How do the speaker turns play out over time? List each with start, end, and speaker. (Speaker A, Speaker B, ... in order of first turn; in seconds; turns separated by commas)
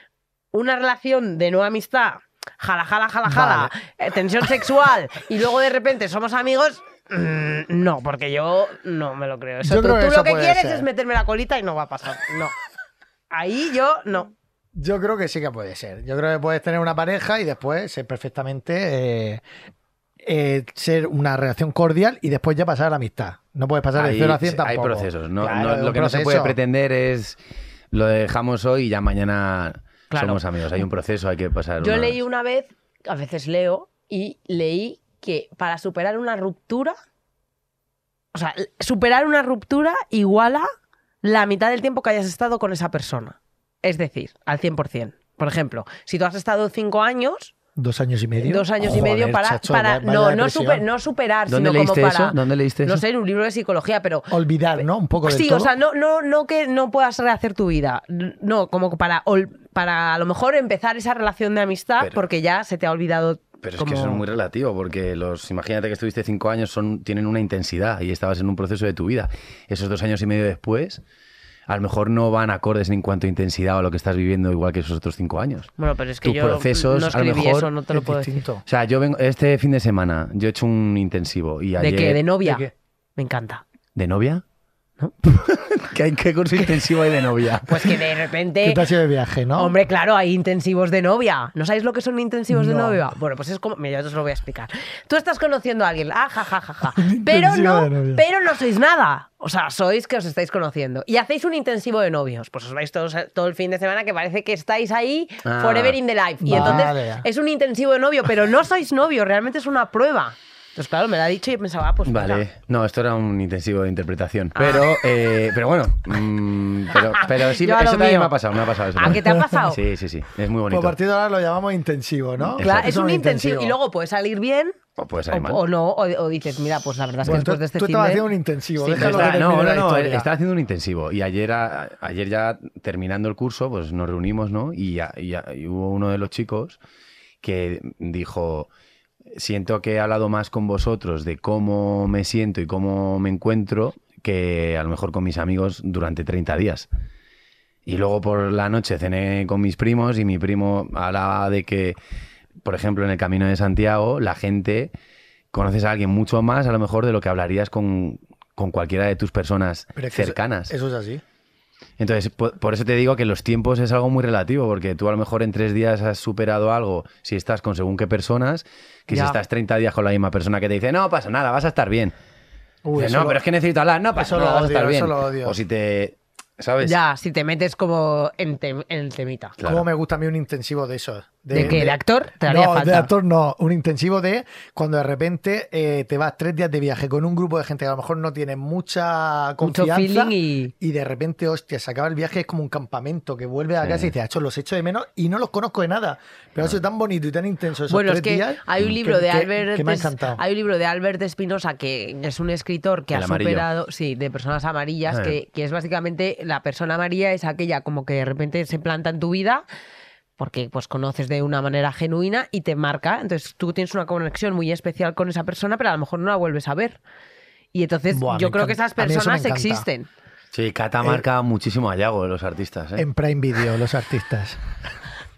Speaker A: 0.5-12.5, Speaker B: 3.2-3.7, Speaker B: 9.6-10.8, Speaker A: 13.3-14.3, Speaker B: 14.7-19.4, Speaker B: 20.2-26.6, Speaker C: 23.9-27.4, Speaker C: 27.9-32.2, Speaker A: 30.1-30.4, Speaker A: 31.8-36.9, Speaker A: 38.3-40.7, Speaker A: 41.2-47.5, Speaker B: 47.8-50.8, Speaker A: 48.4-64.2, Speaker C: 51.5-53.0, Speaker B: 54.3-55.7, Speaker C: 63.6-71.0, Speaker C: 71.7-75.7, Speaker A: 75.8-78.4, Speaker C: 76.2-77.7, Speaker B: 77.9-78.6, Speaker C: 78.7-82.2, Speaker A: 81.8-83.6, Speaker B: 82.4-82.7, Speaker C: 83.9-84.4, Speaker C: 85.2-88.0, Speaker A: 87.7-88.8, Speaker B: 88.6-89.7, Speaker A: 89.5-112.4, Speaker B: 92.5-93.0, Speaker B: 96.9-98.2, Speaker C: 105.4-106.0, Speaker B: 106.4-107.2, Speaker C: 106.5-106.8, Speaker C: 112.0-121.0, Speaker A: 114.5-114.9, Speaker A: 117.0-118.3, Speaker A: 119.0-119.8, Speaker B: 120.7-123.8, Speaker C: 122.4-122.9, Speaker A: 122.6-124.8, Speaker C: 125.0-125.6, Speaker A: 125.3-129.4, Speaker B: 127.2-130.3, Speaker C: 128.9-136.8, Speaker C: 137.4-138.7, Speaker C: 139.3-146.9, Speaker C: 147.8-152.0, Speaker C: 152.6-154.9, Speaker C: 155.5-160.7, Speaker B: 159.9-161.2, Speaker C: 162.0-172.1, Speaker A: 169.1-169.4, Speaker B: 172.8-173.4, Speaker C: 172.9-176.9, Speaker B: 174.2-175.6, Speaker A: 176.8-179.5, Speaker C: 179.6-179.8, Speaker B: 179.6-200.4, Speaker A: 181.5-183.1, Speaker A: 189.6-190.7, Speaker C: 193.8-194.1, Speaker A: 197.9-209.6, Speaker C: 203.1-203.7, Speaker C: 205.1-205.4, Speaker A: 210.4-217.0, Speaker A: 217.7-220.1, Speaker B: 218.1-219.8, Speaker C: 220.5-223.1, Speaker B: 223.0-224.6